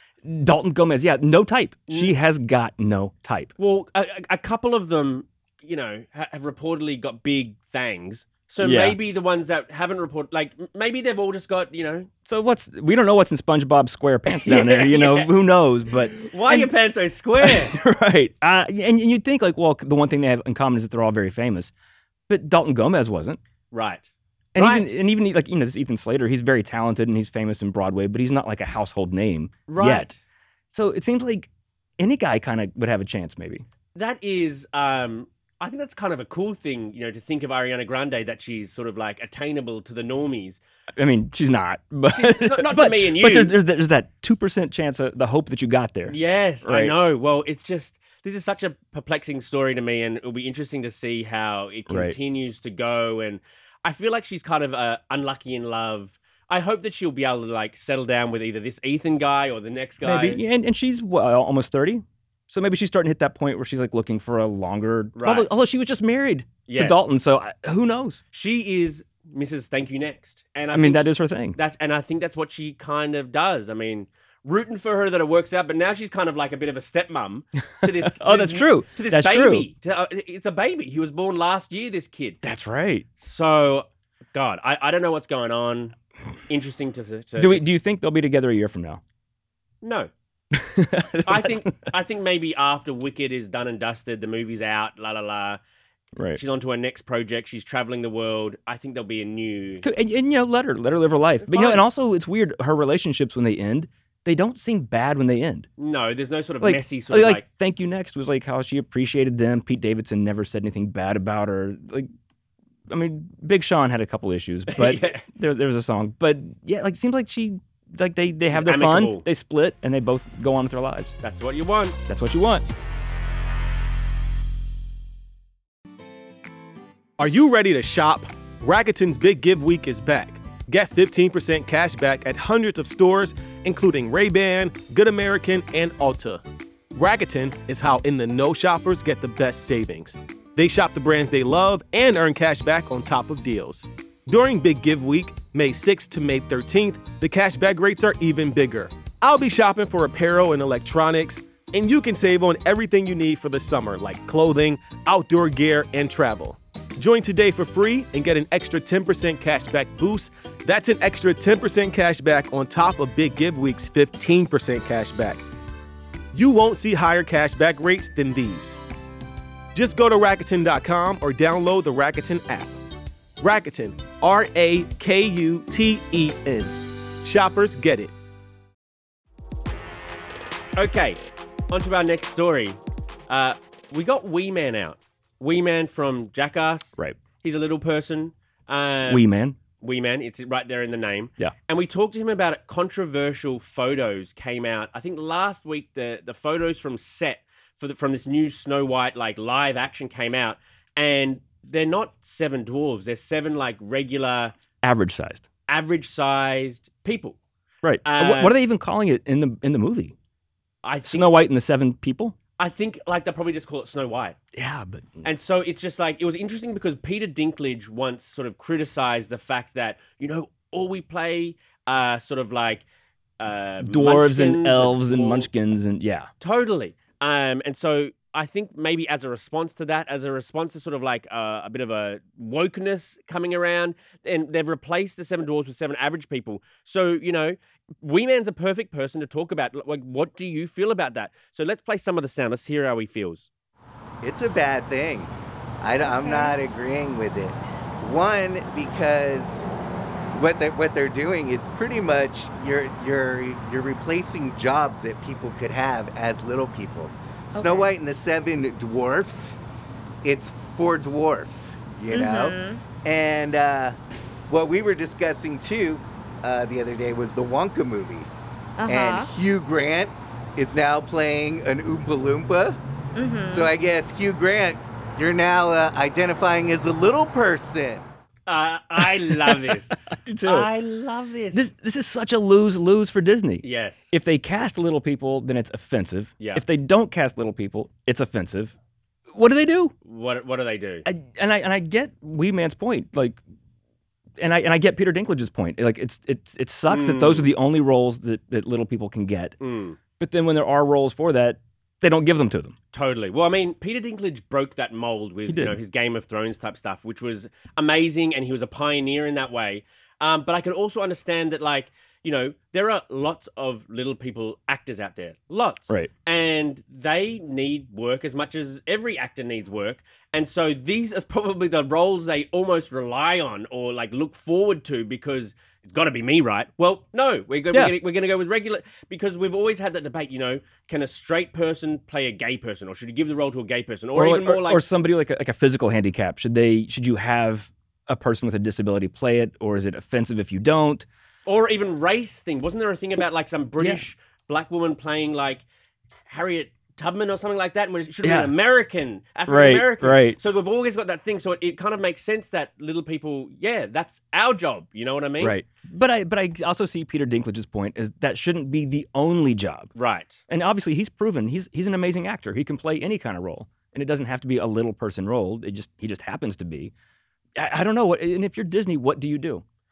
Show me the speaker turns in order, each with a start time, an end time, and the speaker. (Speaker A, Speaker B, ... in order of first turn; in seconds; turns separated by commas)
Speaker A: 0.2-3.5, Speaker B: 1.9-2.1, Speaker B: 3.6-12.1, Speaker A: 8.6-9.0, Speaker A: 12.3-16.7, Speaker B: 14.4-15.3, Speaker B: 16.2-17.8, Speaker A: 17.4-21.7, Speaker A: 22.3-23.4, Speaker B: 23.7-24.9, Speaker A: 24.5-30.1, Speaker B: 29.7-30.2, Speaker A: 30.7-33.6, Speaker B: 33.9-40.6, Speaker A: 41.0-47.0, Speaker B: 42.1-43.6, Speaker B: 46.1-60.4, Speaker A: 51.9-52.1, Speaker A: 60.0-68.2, Speaker B: 65.1-65.5, Speaker B: 66.7-67.0, Speaker B: 68.3-82.4, Speaker A: 70.7-71.6, Speaker A: 77.8-79.7, Speaker A: 82.4-83.0, Speaker B: 83.2-85.9, Speaker B: 86.5-87.6, Speaker A: 87.4-89.0, Speaker B: 89.8-90.1, Speaker A: 90.5-91.9, Speaker B: 91.2-95.6, Speaker B: 96.3-99.8, Speaker A: 99.8-105.7, Speaker B: 101.4-101.8, Speaker B: 105.8-107.4, Speaker A: 106.6-112.1, Speaker A: 112.9-121.2, Speaker B: 114.7-115.2, Speaker B: 118.5-119.2, Speaker B: 121.2-122.0, Speaker A: 122.1-122.7, Speaker C: 127.2-136.4, Speaker C: 136.9-165.4, Speaker C: 166.3-168.8, Speaker C: 169.7-172.8, Speaker C: 173.4-178.1, Speaker B: 180.8-189.2, Speaker A: 189.1-189.6, Speaker B: 189.8-204.6, Speaker A: 204.8-205.4, Speaker B: 205.7-207.4, Speaker A: 207.8-210.1, Speaker B: 208.0-208.6, Speaker B: 210.8-211.4, Speaker A: 211.0-212.3, Speaker B: 212.6-214.4, Speaker A: 214.5-215.3, Speaker B: 215.2-222.8, Speaker B: 223.4-225.5, Speaker A: 223.8-226.3, Speaker B: 226.4-243.5, Speaker D: 244.2-249.7, Speaker E: 246.0-246.5, Speaker D: 250.3-259.6, Speaker E: 257.5-257.9, Speaker D: 260.2-263.9, Speaker E: 262.1-262.8, Speaker D: 264.5-268.3, Speaker E: 268.8-269.3, Speaker D: 268.9-272.8, Speaker E: 273.1-273.7, Speaker D: 273.5-278.0, Speaker B: 278.5-281.6, Speaker A: 279.4-280.7, Speaker A: 281.5-288.7, Speaker B: 283.6-284.1, Speaker A: 289.3-289.9, Speaker B: 290.0-291.1, Speaker A: 291.0-293.4, Speaker A: 294.4-299.5, Speaker B: 296.9-297.5, Speaker B: 299.6-300.0, Speaker A: 300.2-302.7, Speaker B: 302.9-334.9, Speaker A: 305.5-305.8, Speaker A: 334.1-341.0, Speaker B: 341.4-345.6, Speaker B: 346.3-355.6, Speaker A: 348.2-348.5, Speaker A: 349.5-350.4, Speaker A: 355.4-359.9, Speaker B: 359.9-360.4, Speaker A: 360.5-366.9, Speaker A: 367.6-369.6